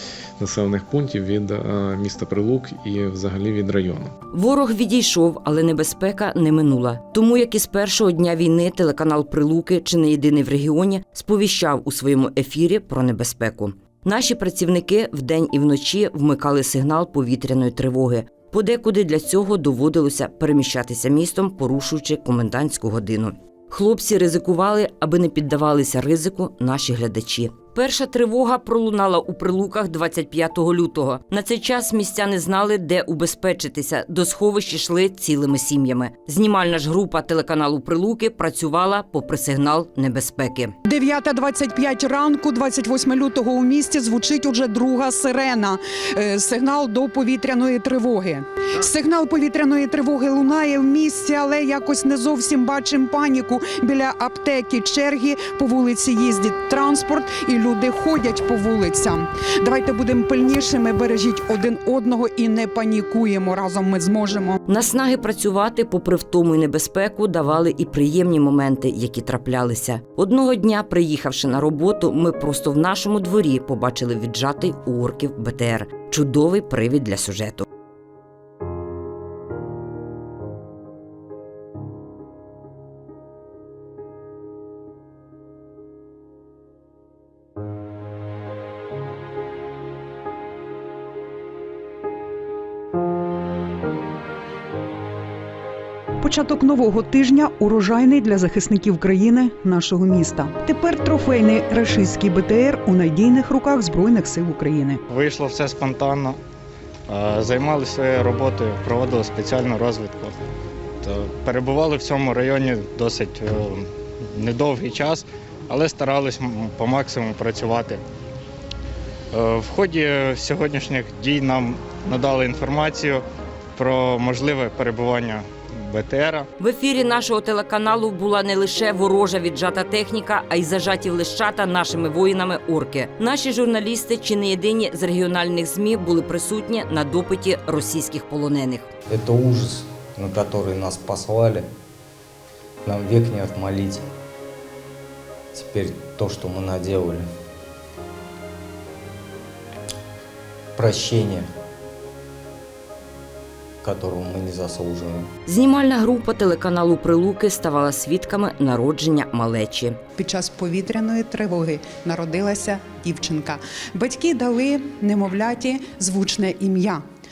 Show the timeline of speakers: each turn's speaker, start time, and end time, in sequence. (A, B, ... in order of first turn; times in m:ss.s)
0:00.4-0:04.1 A
0:04.3-0:40.7 B
0:40.8-1:04.6 C
1:04.7-1:17.7 B
1:36.2-1:45.0 C
1:45.1-1:46.4 D
1:47.1-1:50.4 D
1:51.0-1:58.0 D
1:59.3-2:03.2 D
2:03.8-2:06.5 D
2:06.6-2:18.9 B
2:19.1-2:21.7 E
2:22.8-2:24.1 E
2:25.5-2:27.2 E
2:30.8-2:31.4 E
2:33.8-2:35.3 E
2:35.4-2:40.0 B
2:40.2-2:47.0 C